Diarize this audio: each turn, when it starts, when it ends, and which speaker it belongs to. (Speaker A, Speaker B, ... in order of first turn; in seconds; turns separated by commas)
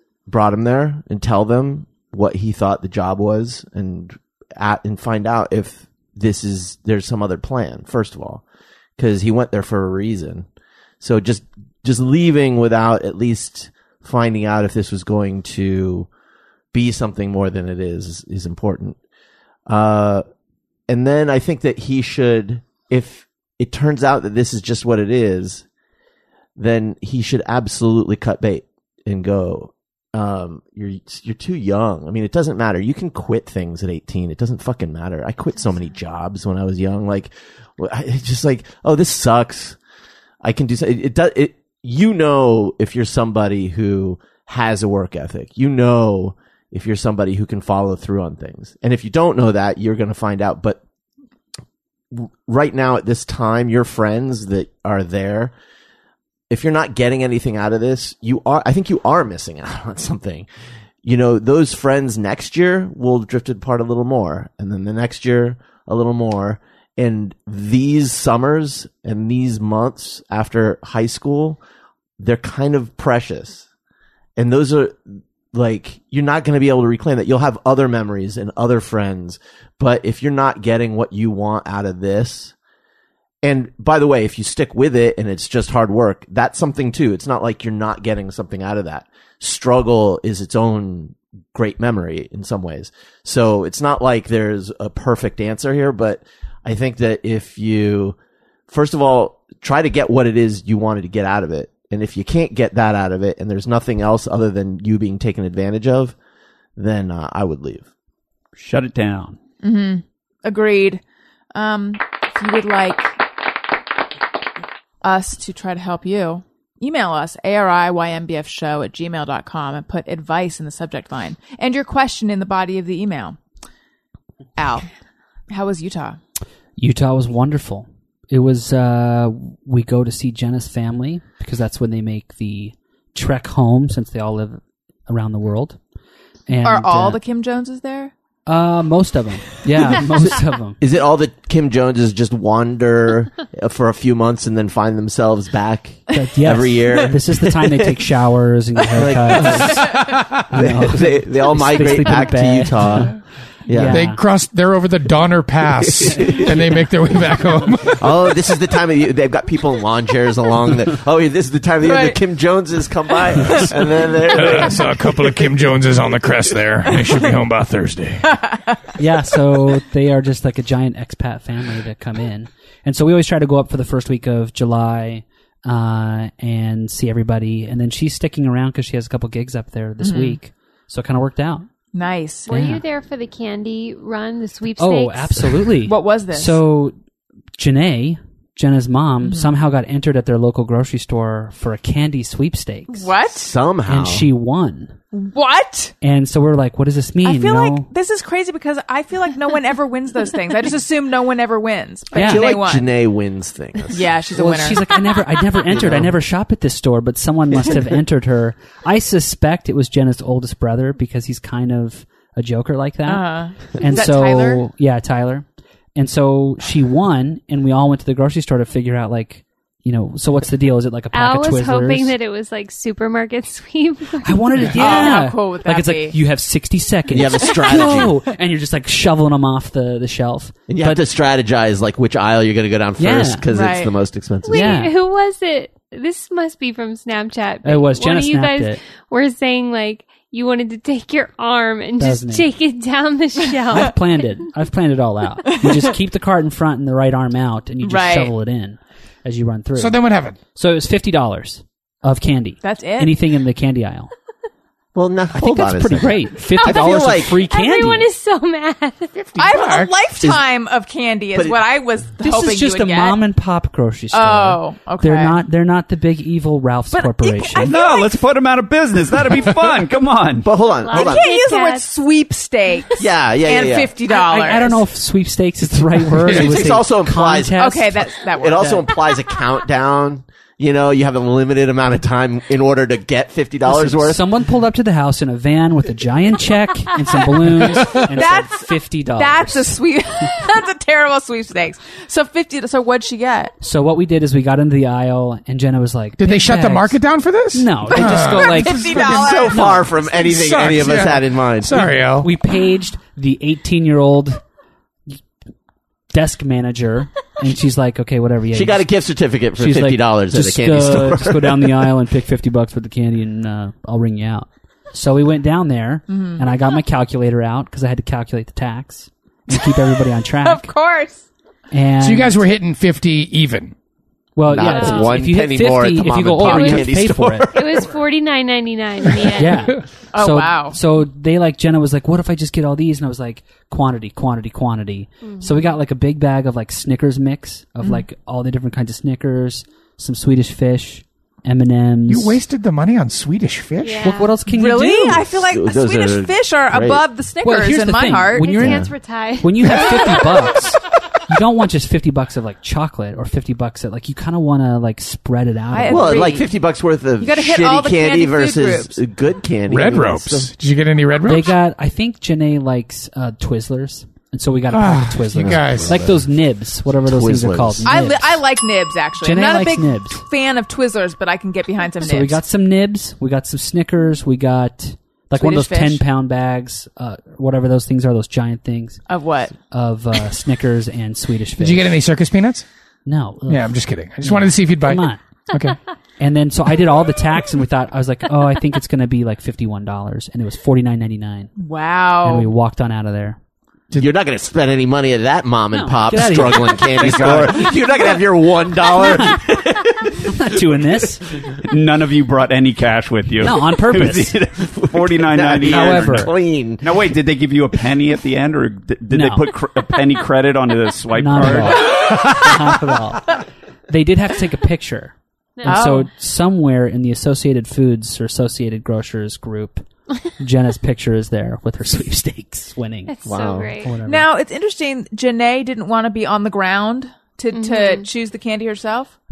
Speaker A: 0.3-8.4, Speaker A: 9.0-10.5, Speaker A: 11.0-16.1, Speaker A: 16.7-19.0, Speaker A: 19.7-20.2, Speaker A: 20.9-25.6, Speaker A: 26.6-39.8, Speaker A: 40.4-50.8, Speaker A: 52.1-55.5, Speaker A: 56.5-60.5, Speaker A: 61.0-71.6, Speaker A: 72.2-73.7, Speaker A: 74.4-82.5, Speaker A: 83.4-98.2, Speaker A: 98.7-106.2, Speaker A: 106.8-107.9, Speaker B: 108.6-109.4, Speaker C: 109.6-111.0, Speaker C: 111.5-113.2, Speaker C: 115.0-123.4, Speaker C: 124.6-124.9, Speaker C: 125.5-126.2, Speaker D: 126.8-135.8, Speaker D: 136.5-137.2, Speaker C: 136.6-138.1, Speaker D: 138.5-140.8, Speaker A: 140.8-148.0, Speaker D: 146.1-153.2, Speaker A: 149.0-153.1, Speaker E: 149.8-150.4, Speaker A: 153.7-154.0, Speaker D: 153.7-154.2, Speaker E: 153.9-158.0, Speaker A: 158.0-164.9, Speaker C: 161.8-162.2, Speaker E: 164.3-168.4, Speaker D: 169.0-181.7, Speaker C: 180.0-180.4, Speaker C: 181.9-182.5, Speaker F: 182.5-185.6, Speaker D: 182.5-182.8, Speaker D: 184.8-186.9, Speaker C: 185.8-186.6, Speaker D: 187.6-193.1, Speaker C: 189.2-189.6, Speaker C: 192.9-193.5, Speaker A: 193.3-194.3, Speaker D: 193.9-195.0, Speaker C: 195.1-195.9, Speaker D: 196.0-197.9, Speaker C: 197.2-202.9, Speaker A: 202.1-204.1, Speaker D: 202.2-202.5, Speaker C: 203.9-205.2, Speaker D: 204.3-222.1, Speaker A: 205.7-206.2, Speaker C: 213.1-214.6, Speaker F: 221.1-225.1, Speaker D: 224.2-231.0, Speaker C: 224.8-226.2, Speaker A: 227.1-228.1, Speaker C: 227.6-228.0, Speaker A: 230.7-234.8, Speaker D: 233.0-233.5, Speaker C: 233.5-233.9, Speaker F: 234.4-244.4, Speaker D: 234.5-234.9, Speaker D: 237.6-238.8, Speaker D: 242.0-242.5, Speaker D: 243.7-250.0, Speaker C: 245.5-245.9, Speaker C: 247.8-248.3, Speaker E: 249.8-250.4, Speaker D: 250.5-254.1, Speaker C: 252.6-253.3, Speaker A: 254.9-257.5, Speaker D: 255.3-258.1, Speaker F: 256.5-259.2, Speaker E: 259.2-259.9, Speaker C: 259.4-263.2, Speaker A: 261.4-261.6, Speaker D: 262.2-267.8, Speaker C: 264.1-265.4, Speaker C: 266.9-268.1, Speaker B: 267.6-270.5, Speaker A: 270.4-271.3, Speaker F: 270.8-271.9, Speaker C: 270.9-274.8, Speaker A: 273.0-273.9, Speaker D: 274.1-278.1, Speaker A: 276.2-284.2, Speaker E: 276.2-276.7, Speaker C: 277.6-278.9, Speaker D: 283.7-289.8, Speaker E: 287.6-288.1, Speaker C: 287.9-293.5, Speaker D: 293.6-297.0, Speaker E: 296.2-299.2, Speaker D: 297.5-299.9, Speaker C: 297.9-299.8, Speaker A: 299.0-301.9, Speaker E: 300.1-302.3, Speaker D: 302.2-304.4, Speaker D: 306.1-308.9, Speaker A: 308.5-311.9, Speaker D: 309.6-320.7, Speaker C: 316.1-316.5, Speaker C: 319.5-321.2, Speaker D: 321.7-322.4, Speaker E: 322.0-323.7, Speaker D: 324.4-327.6, Speaker A: 324.5-327.9, Speaker F: 324.6-325.2, Speaker F: 326.4-326.9, Speaker F: 327.5-329.8, Speaker D: 329.4-342.4, Speaker C: 330.1-330.8, Speaker F: 335.2-335.8, Speaker E: 342.1-344.2, Speaker F: 343.8-344.3, Speaker D: 344.0-345.3, Speaker C: 344.5-348.6, Speaker A: 345.5-347.0, Speaker D: 347.4-356.4, Speaker F: 348.4-350.6, Speaker A: 348.6-348.9, Speaker C: 355.7-356.5, Speaker A: 355.9-360.5, Speaker C: 357.2-359.0, Speaker E: 359.7-361.6, Speaker D: 361.3-368.4, Speaker E: 364.7-366.0, Speaker A: 365.4-366.2, Speaker A: 367.1-367.9, Speaker C: 367.9-372.4, Speaker D: 369.2-370.2, Speaker D: 372.0-379.0, Speaker C: 375.3-376.0, Speaker C: 379.1-379.6, Speaker D: 379.7-382.0, Speaker E: 381.6-382.6, Speaker D: 383.1-385.2, Speaker E: 383.5-385.8, Speaker D: 386.2-391.5, Speaker C: 391.6-392.5, Speaker D: 392.2-393.4, Speaker A: 393.9-400.3, Speaker D: 395.7-397.8, Speaker B: 397.0-397.6, Speaker D: 398.9-399.4, Speaker D: 400.1-401.2, Speaker B: 401.6-412.2, Speaker D: 403.4-404.4, Speaker A: 404.6-406.9, Speaker D: 405.6-406.3, Speaker D: 409.1-409.6, Speaker D: 411.1-423.1, Speaker F: 415.6-416.0, Speaker C: 415.7-416.1, Speaker F: 423.1-424.0, Speaker A: 423.2-423.7, Speaker D: 423.8-424.2, Speaker C: 424.0-429.2, Speaker F: 427.5-428.1